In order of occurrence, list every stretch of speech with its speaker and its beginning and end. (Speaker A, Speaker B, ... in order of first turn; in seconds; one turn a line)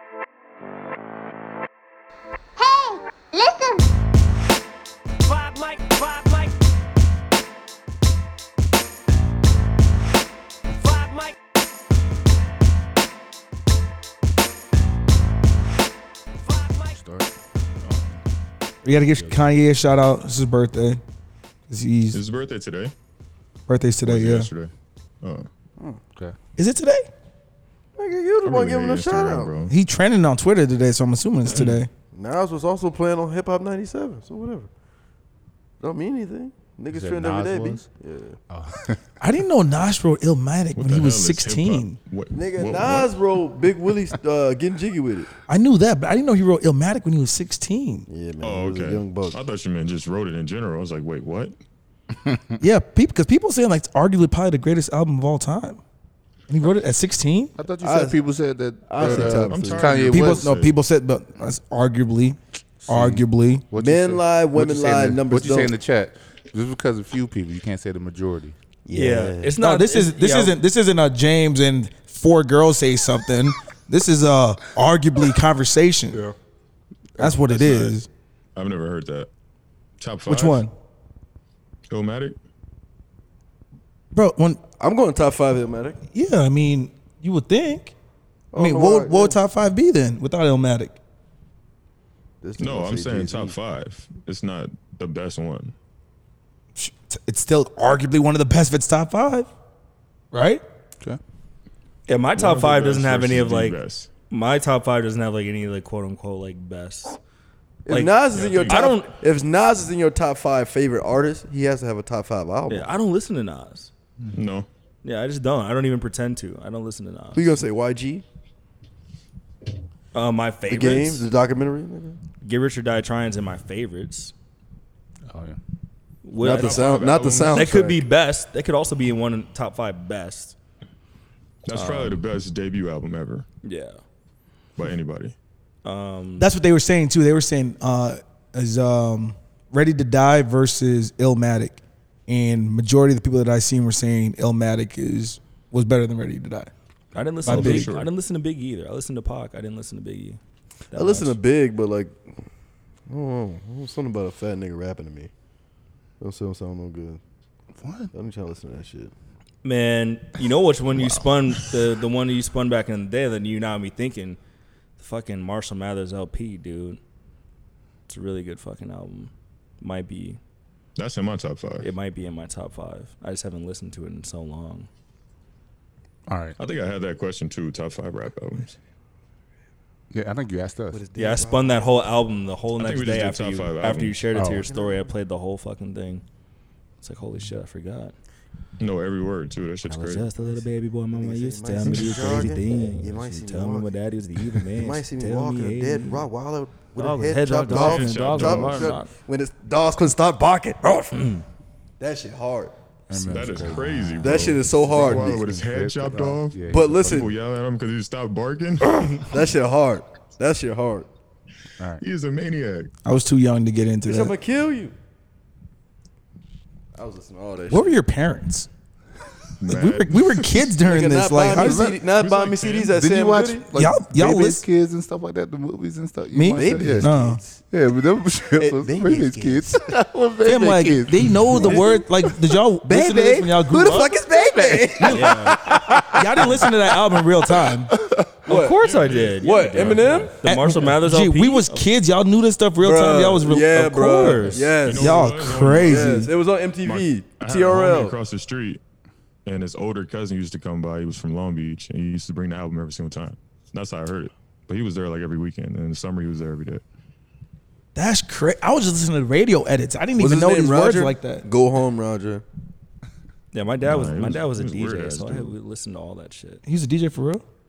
Speaker A: 5.2-6.5
Speaker A: 10.8-11.4
Speaker A: 16.4-17.0
Speaker B: 16.9-17.3
Speaker B: 17.8-18.2
Speaker C: 18.8-21.0
Speaker B: 19.1-19.5
Speaker C: 21.7-22.2
Speaker D: 22.1-22.9
Speaker C: 23.7-24.5
Speaker D: 24.1-25.5
Speaker C: 26.6-27.1
Speaker E: 28.0-29.5
Speaker D: 28.4-29.7
Speaker C: 29.7-31.9
Speaker D: 31.5-31.8
Speaker E: 32.1-34.7
Speaker E: 35.8-38.4
Speaker B: 36.9-37.9
Speaker B: 38.5-39.0
Speaker C: 39.2-42.0
Speaker D: 40.8-43.1
Speaker E: 42.3-45.3
Speaker C: 45.5-48.1
Speaker E: 48.1-49.4
Speaker D: 48.4-51.5
Speaker B: 52.1-52.5
Speaker C: 52.6-55.8
Speaker C: 56.5-57.5
Speaker B: 57.6-60.6
Speaker E: 57.8-58.2
Speaker E: 58.9-59.9
Speaker D: 59.0-60.7
Speaker C: 60.1-63.6
Speaker B: 62.8-68.6
Speaker E: 63.8-65.7
Speaker E: 68.9-69.5
Speaker F: 68.9-70.6
Speaker C: 69.6-76.2
Speaker C: 77.2-78.1
Speaker D: 77.5-78.0
Speaker D: 78.6-79.3
Speaker D: 80.0-80.6
Speaker C: 80.3-80.7
Speaker D: 81.9-82.4
Speaker C: 84.1-84.6
Speaker E: 84.8-86.0
Speaker C: 86.1-87.9
Speaker E: 88.5-89.4
Speaker C: 88.6-91.0
Speaker E: 92.4-93.6
Speaker D: 92.6-95.7
Speaker C: 96.8-99.5
Speaker C: 100.3-100.6
Speaker F: 102.1-103.8
Speaker D: 102.4-104.1
Speaker F: 104.3-107.2
Speaker E: 107.8-112.9
Speaker F: 107.9-109.1
Speaker D: 108.3-108.9
Speaker F: 112.7-113.9
Speaker D: 114.3-114.7
Speaker F: 115.0-117.5
Speaker E: 117.3-118.2
Speaker F: 120.1-121.3
Speaker E: 120.7-122.2
Speaker F: 122.4-124.3
Speaker B: 125.3-125.6
Speaker F: 126.2-130.5
Speaker E: 126.4-128.1
Speaker D: 126.4-127.7
Speaker D: 131.7-133.5
Speaker F: 131.7-132.2
Speaker F: 133.6-134.0
Speaker D: 134.8-135.3
Speaker F: 135.8-136.5
Speaker C: 136.4-146.7
Speaker F: 147.1-150.4
Speaker C: 147.4-147.9
Speaker D: 147.4-148.1
Speaker F: 150.9-151.3
Speaker E: 150.9-152.2
Speaker E: 153.1-155.3
Speaker E: 156.2-157.2
Speaker B: 157.8-158.1
Speaker E: 158.1-159.1
Speaker F: 159.6-164.4
Speaker F: 165.0-167.0
Speaker F: 168.1-170.4
Speaker D: 171.0-171.9
Speaker F: 171.8-174.9
Speaker B: 176.3-176.6
Speaker D: 176.6-178.8
Speaker B: 180.1-181.0
Speaker E: 180.9-182.1
Speaker F: 181.2-186.2
Speaker D: 182.8-184.2
Speaker B: 184.3-184.7
Speaker E: 184.4-185.1
Speaker F: 187.0-188.1
Speaker D: 188.8-190.2
Speaker F: 189.8-196.3
Speaker E: 191.2-193.9
Speaker D: 191.9-192.4
Speaker E: 194.7-201.3
Speaker F: 196.9-199.1
Speaker D: 197.7-199.0
Speaker F: 201.1-201.4
Speaker E: 202.0-202.7
Speaker B: 203.1-207.3
Speaker D: 203.2-209.0
Speaker E: 204.2-205.4
Speaker E: 206.7-207.3
Speaker E: 208.9-211.1
Speaker B: 211.8-212.0
Speaker D: 212.0-212.9
Speaker C: 213.0-214.3
Speaker E: 214.1-214.9
Speaker E: 216.9-217.9
Speaker C: 217.7-218.7
Speaker D: 219.6-220.7
Speaker C: 219.7-221.9
Speaker E: 220.8-223.7
Speaker B: 221.5-222.0
Speaker D: 222.2-222.9
Speaker B: 222.9-232.0
Speaker C: 223.8-224.6
Speaker C: 226.3-227.4
Speaker E: 226.5-227.6
Speaker E: 228.6-229.9
Speaker C: 230.4-234.1
Speaker E: 231.6-236.8
Speaker B: 234.6-234.9
Speaker C: 235.0-235.3
Speaker F: 235.1-235.7
Speaker C: 236.0-237.9
Speaker B: 237.9-238.4
Speaker F: 238.5-241.8
Speaker E: 238.5-238.8
Speaker D: 238.8-240.3
Speaker E: 239.4-240.3
Speaker C: 240.4-246.3
Speaker E: 242.8-248.1
Speaker F: 244.0-244.8
Speaker D: 244.8-246.3
Speaker D: 246.8-248.8
Speaker D: 249.5-256.8
Speaker C: 257.9-261.4
Speaker E: 260.1-262.4
Speaker F: 263.5-266.6
Speaker D: 263.8-265.5
Speaker C: 266.6-267.4